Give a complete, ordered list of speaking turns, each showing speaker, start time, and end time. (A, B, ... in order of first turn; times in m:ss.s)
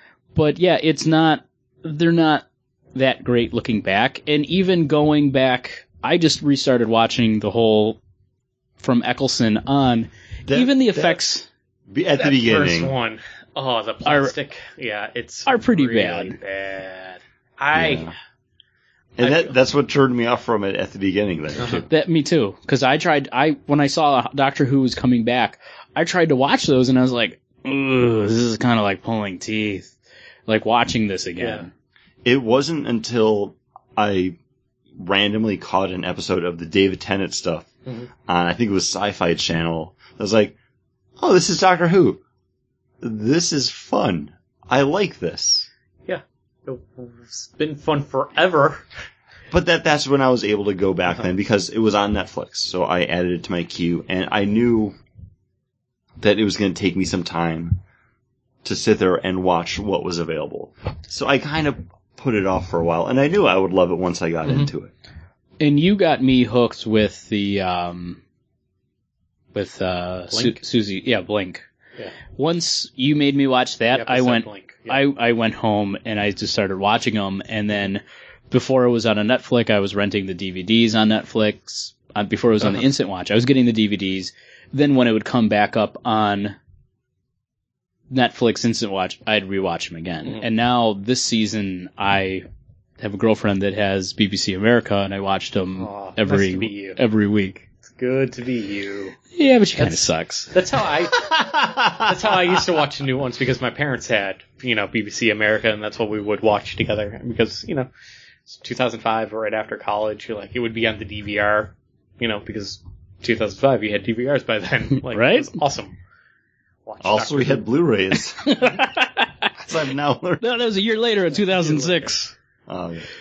0:00.3-0:08.0 A
0:08.8-0:11.5 A
0:10.5-0:11.2 B
0:11.9-0:12.9 B
0:12.2-0:18.1 C
0:14.0-0:14.3 A
0:15.4-0:16.4 A
0:17.7-0:18.1 B
0:19.2-0:21.9 B
0:19.2-0:19.5 C
0:21.6-0:21.8 C
0:21.9-0:29.9 A
0:30.5-0:31.7 A
0:31.4-0:31.7 C
0:32.2-0:34.4 B
0:35.0-0:37.7 B
0:38.2-0:40.6 B
0:41.2-0:42.2 B
0:43.0-0:45.7 B
0:46.1-0:48.8 C
0:49.5-0:54.9 B
0:56.2-0:57.8 B
0:58.6-1:04.9 B
1:05.6-1:08.2 A
1:09.5-1:11.6 A
1:10.3-1:10.6 C
1:12.3-1:26.6 A
1:13.9-1:15.0 C
1:28.1-1:32.4 A
1:33.0-1:37.6 A
1:35.8-1:37.0 C
1:37.8-1:39.2 C
1:39.3-1:40.5 A
1:39.8-1:47.9 C
1:48.5-1:56.0 C
1:55.1-1:55.6 A
1:56.8-1:57.6 C
1:57.0-1:58.8 B
1:58.4-1:59.5 A
1:59.6-2:00.4 B
2:00.4-2:02.3 A
2:01.3-2:02.2 C
2:02.7-2:03.1 B